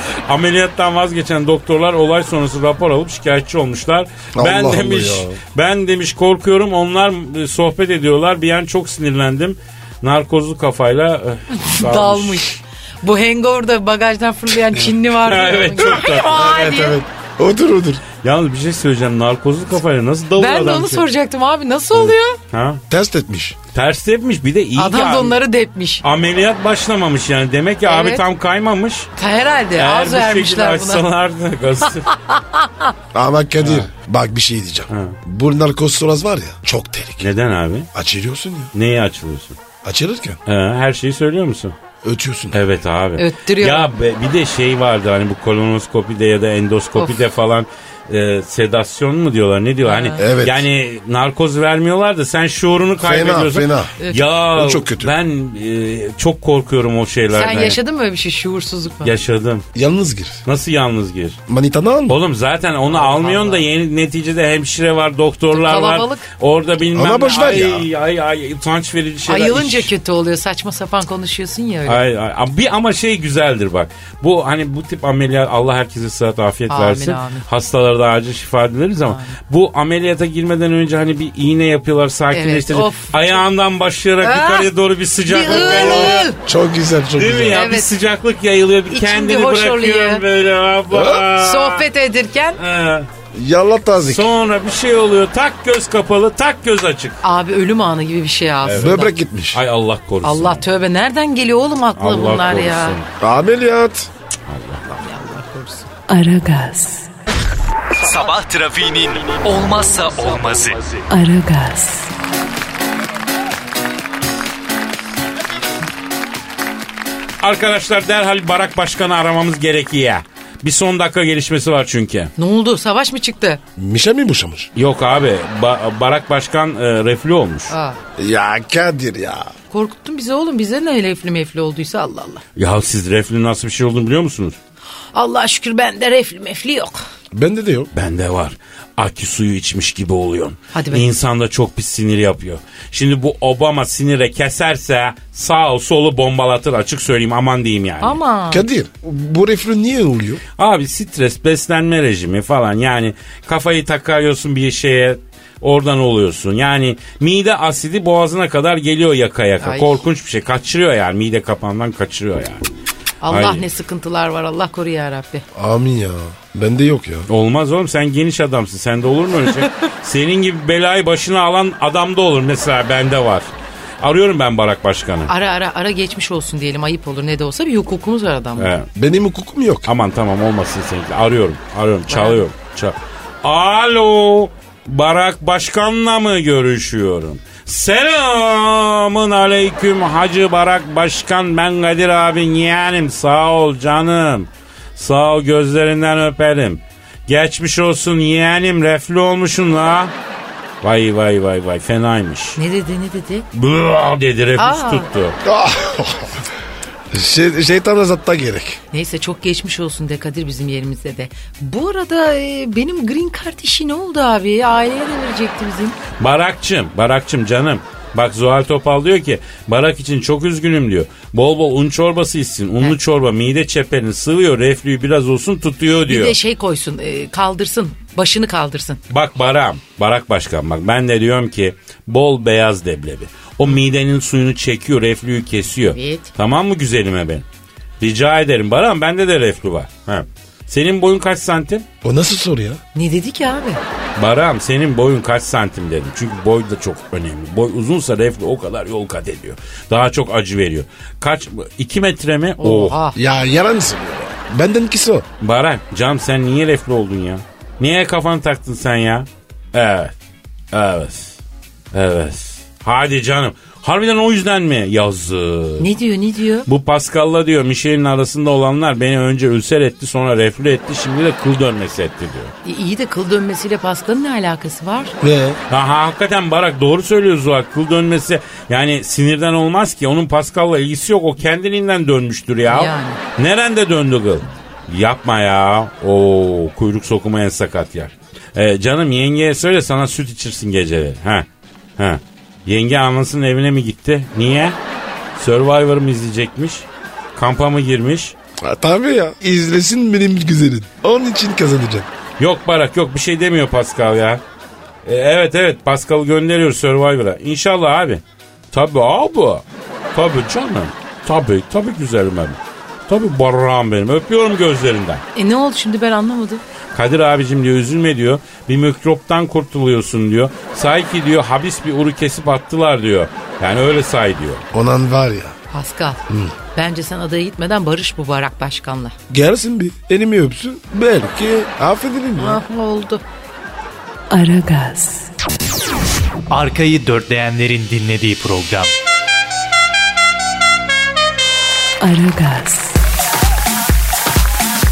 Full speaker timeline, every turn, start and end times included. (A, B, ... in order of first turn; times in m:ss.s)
0:00.2-0:12.5 A
0:04.3-0:05.4 B
0:11.5-0:17.0 C
0:15.2-0:16.4 A
0:15.8-0:18.0 B
0:18.2-0:21.0 A
0:20.4-0:22.4 C
0:21.9-0:22.8 A
0:22.9-0:23.6 B
0:23.7-0:25.4 A
0:24.7-0:26.0 C
0:26.0-0:29.1 A
0:27.8-0:28.2 C
0:29.2-0:31.0 C
0:29.8-0:32.1 A
0:32.2-0:32.8 C
0:33.1-0:37.3 B
0:33.6-0:33.9 A
0:34.9-0:35.2 A
0:37.2-0:37.9 A
0:37.9-0:38.7 B
0:38.7-0:39.6 A
0:39.8-0:40.4 B
0:40.4-0:41.8 A
0:42.0-0:42.6 B
0:42.5-0:57.8 A
0:43.2-0:43.9 C
0:49.8-0:50.2 C
0:50.2-0:50.6 B
0:53.0-0:53.9 B
0:54.5-0:55.1 B
0:57.3-0:59.2 C
0:59.0-0:59.6 A
0:59.7-1:00.4 B
1:00.4-1:01.4 A
1:01.5-1:02.2 B
1:02.1-1:09.9 A
1:02.9-1:03.7 C
1:05.5-1:06.3 C
1:06.9-1:07.9 B
1:09.2-1:12.0 C
1:11.8-1:26.3 A
1:16.7-1:17.4 C
1:19.0-1:19.4 C
1:22.3-1:23.4 C
1:24.2-1:24.7 C
1:25.2-1:26.4 C
1:25.7-1:27.6 B
1:27.2-1:31.9 A
1:27.5-1:27.9 C
1:28.9-1:30.2 C
1:30.9-1:31.3 B
1:31.4-1:32.6 C
1:32.6-1:33.1 A
1:33.3-1:34.3 B
1:34.0-1:37.2 A
1:37.2-1:39.1 C
1:38.6-1:40.6 A
1:38.7-1:39.6 B
1:40.2-1:43.0 C
1:42.0-1:43.1 A
1:43.2-1:44.1 B
1:44.5-1:44.9 A
1:45.0-1:45.9 C
1:46.1-1:47.1 D
1:48.0-1:50.8 E
1:51.1-1:52.1 D
1:57.4-2:02.3 A
2:02.4-2:03.6 C
2:03.8-2:04.7 B
2:04.7-2:07.7 A
2:07.7-2:08.0 C
2:08.2-2:09.5 B
2:09.7-2:12.4 C
2:12.6-2:14.6 A
2:15.1-2:17.0 C
2:17.3-2:17.9 B
2:17.9-2:28.2 A
2:20.7-2:21.1 C
2:28.0-2:28.6 C
2:28.5-2:30.4 B
2:30.6-2:42.6 A
2:39.6-2:40.0 C
2:43.2-2:45.4 C
2:43.3-2:43.6 A
2:45.5-2:47.3 B
2:47.3-2:53.5 A
2:54.0-2:55.3 A
2:55.3-2:58.7 C
2:58.6-2:58.9 A
2:58.9-2:59.9 B
2:59.8-3:20.1 A
3:02.1-3:02.4 C
3:20.8-3:22.6 A
3:22.6-3:23.4 C
3:23.5-3:25.4 A
3:24.6-3:25.0 C
3:25.4-3:26.4 B
3:27.1-3:28.8 B
3:28.9-3:36.0 C
3:36.2-3:46.4 A
3:46.0-3:49.0 C
3:49.1-3:57.4 A
3:55.8-3:56.3 C
3:58.0-4:01.8 A
4:02.0-4:02.8 B
4:02.9-4:03.8 C
4:04.2-4:13.0 A
4:12.6-4:13.2 C
4:13.1-4:15.2 B
4:15.4-4:20.1 A
4:20.7-4:21.4 A
4:21.9-4:25.9 A
4:25.8-4:26.7 C
4:26.6-4:32.5 A
4:32.6-4:35.2 C
4:35.2-4:35.6 B
4:35.7-4:51.4 A
4:42.7-4:43.2 C
4:52.0-4:54.8 A
4:55.4-4:58.3 A
4:58.6-5:02.1 B
5:02.4-5:04.4 A
5:05.0-5:15.2 A
5:15.3-5:16.6 C
5:16.9-5:24.6 A
5:24.7-5:25.6 B
5:25.7-5:26.2 C
5:26.3-5:26.5 B
5:26.7-5:29.2 C
5:29.3-5:32.6 B
5:32.4-5:33.2 C
5:34.3-5:35.3 D
5:36.5-5:38.9 F
5:42.0-5:43.0 D